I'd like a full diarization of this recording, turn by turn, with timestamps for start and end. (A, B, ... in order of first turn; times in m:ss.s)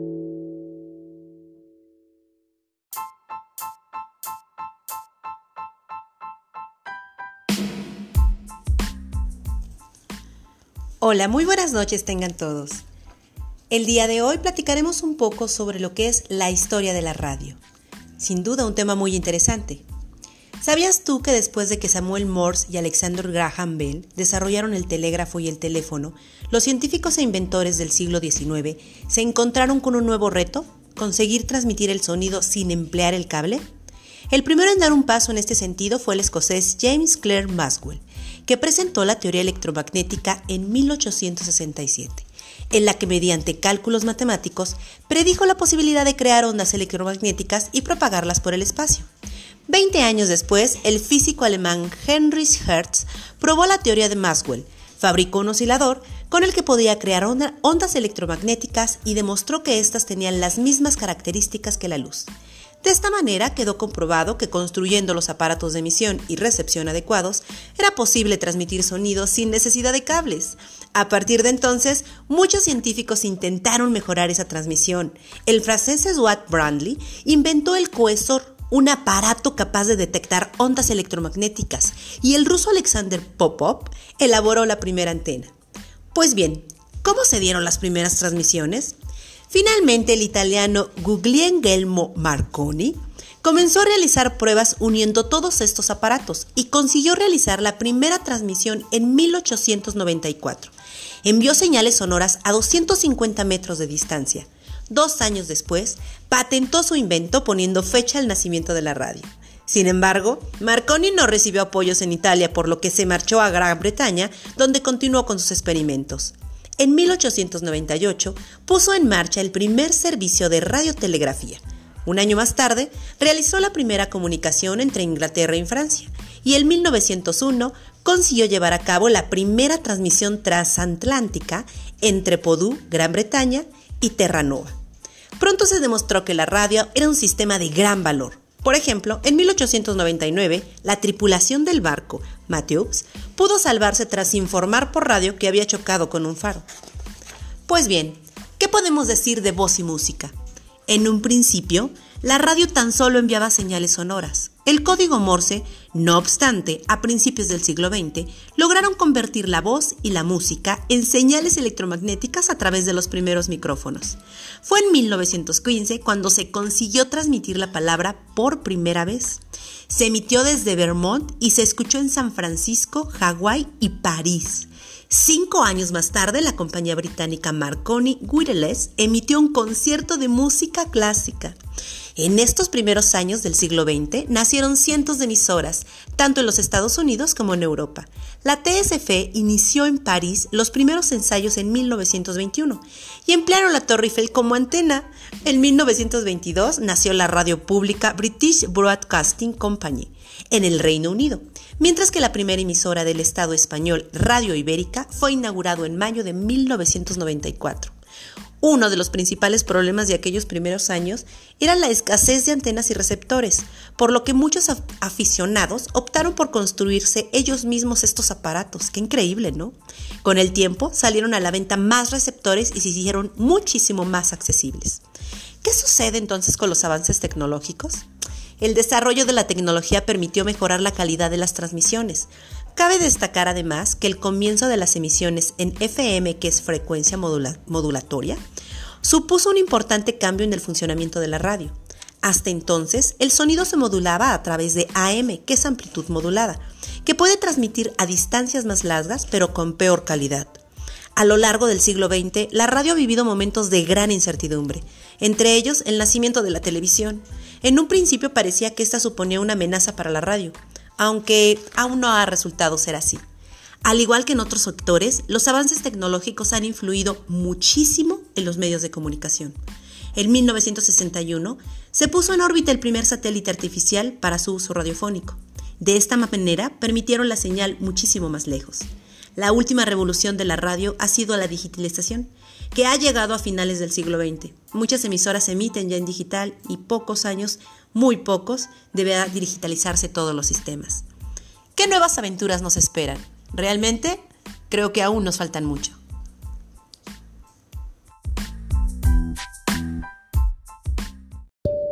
0:11.0-0:12.8 A
0:13.7-0:17.6 A
0:18.2-0:19.8 A
0:20.6-0:33.6 A
0:34.3-0:49.1 A
0:49.7-1:02.3 A
1:02.8-1:25.5 A
1:26.1-1:29.0 A
1:29.5-1:40.7 A
1:41.2-2:14.7 A
2:15.4-2:26.6 A
2:27.7-2:30.3 A
2:30.9-3:01.6 A
3:02.2-3:27.9 A
3:28.6-3:45.0 A
3:45.6-3:48.0 A
3:48.6-3:58.4 A
3:59.0-4:10.6 A
4:11.2-4:23.2 A
4:23.8-4:29.6 A
4:30.1-4:51.0 A
4:51.7-4:56.0 A